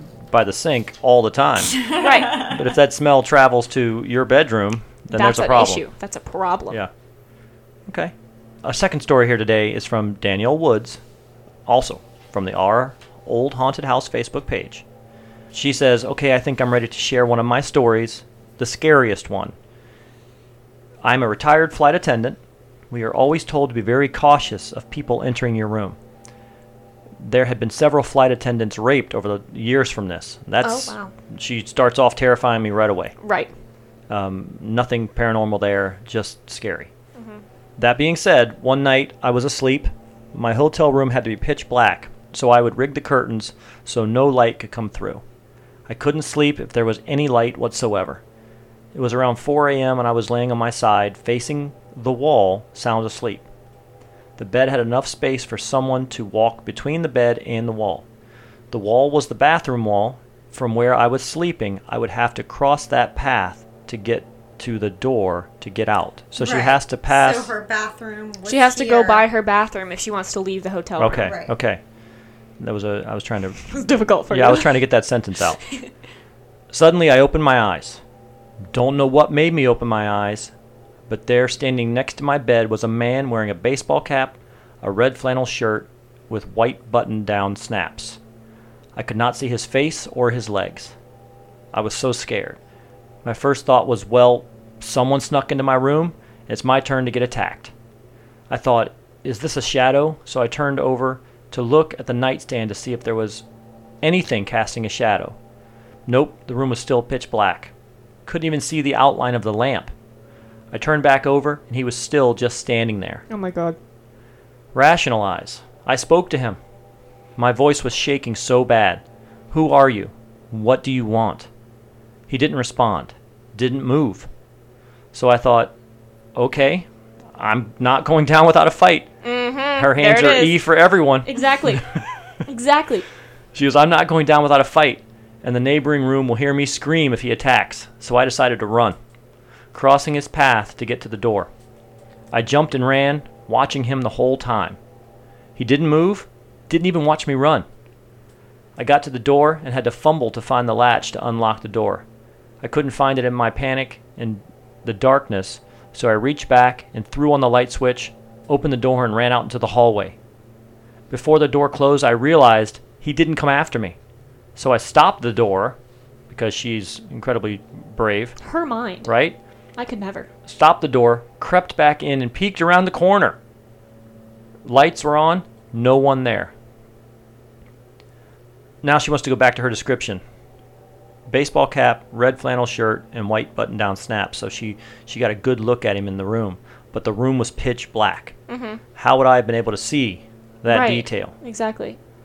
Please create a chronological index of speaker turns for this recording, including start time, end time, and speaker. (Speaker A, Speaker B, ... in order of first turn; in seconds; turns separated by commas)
Speaker A: 0.3-5.8, Speaker B: 1.7-2.6, Speaker C: 2.0-2.4, Speaker C: 5.1-6.8, Speaker A: 7.9-8.1, Speaker A: 8.6-11.0, Speaker A: 11.7-14.8, Speaker A: 15.5-19.5, Speaker A: 21.0-22.4, Speaker A: 22.9-26.0, Speaker A: 27.2-33.1, Speaker C: 30.6-31.1, Speaker C: 33.2-33.5, Speaker A: 34.1-36.9, Speaker C: 37.1-37.4, Speaker A: 37.8-45.2, Speaker A: 45.9-48.2, Speaker A: 48.9-53.4, Speaker A: 54.4-58.0, Speaker A: 58.7-67.5, Speaker B: 66.4-69.2, Speaker C: 68.5-71.3, Speaker A: 71.0-71.8, Speaker B: 71.2-71.5, Speaker A: 72.6-73.6, Speaker C: 73.6-74.8, Speaker A: 74.3-75.6, Speaker A: 76.7-78.0, Speaker A: 78.7-80.5, Speaker A: 81.1-88.2, Speaker A: 89.0-90.9, Speaker A: 91.7-92.6, Speaker A: 93.2-97.7, Speaker A: 98.5-103.4, Speaker A: 104.0-105.3, Speaker A: 106.1-107.7, Speaker A: 108.2-109.9, Speaker A: 110.7-113.2, Speaker C: 113.3-113.8, Speaker A: 114.7-116.6, Speaker A: 117.4-121.5, Speaker A: 122.3-124.3, Speaker A: 125.1-125.7, Speaker A: 126.3-129.1, Speaker C: 129.2-130.6, Speaker A: 129.8-132.0, Speaker C: 131.2-131.9, Speaker C: 132.4-133.1, Speaker A: 133.5-139.0, Speaker A: 139.7-141.5, Speaker A: 142.3-144.8, Speaker A: 145.6-147.7, Speaker A: 148.8-152.0, Speaker A: 152.6-160.2, Speaker A: 161.1-164.0, Speaker A: 164.6-165.8, Speaker A: 166.3-168.4, Speaker C: 168.4-169.1, Speaker A: 169.0-169.4, Speaker C: 169.8-170.3, Speaker A: 170.5-173.4, Speaker A: 174.6-176.5, Speaker A: 178.8-180.2, Speaker A: 181.3-188.3, Speaker C: 188.5-188.8, Speaker A: 188.9-191.3, Speaker C: 190.7-192.0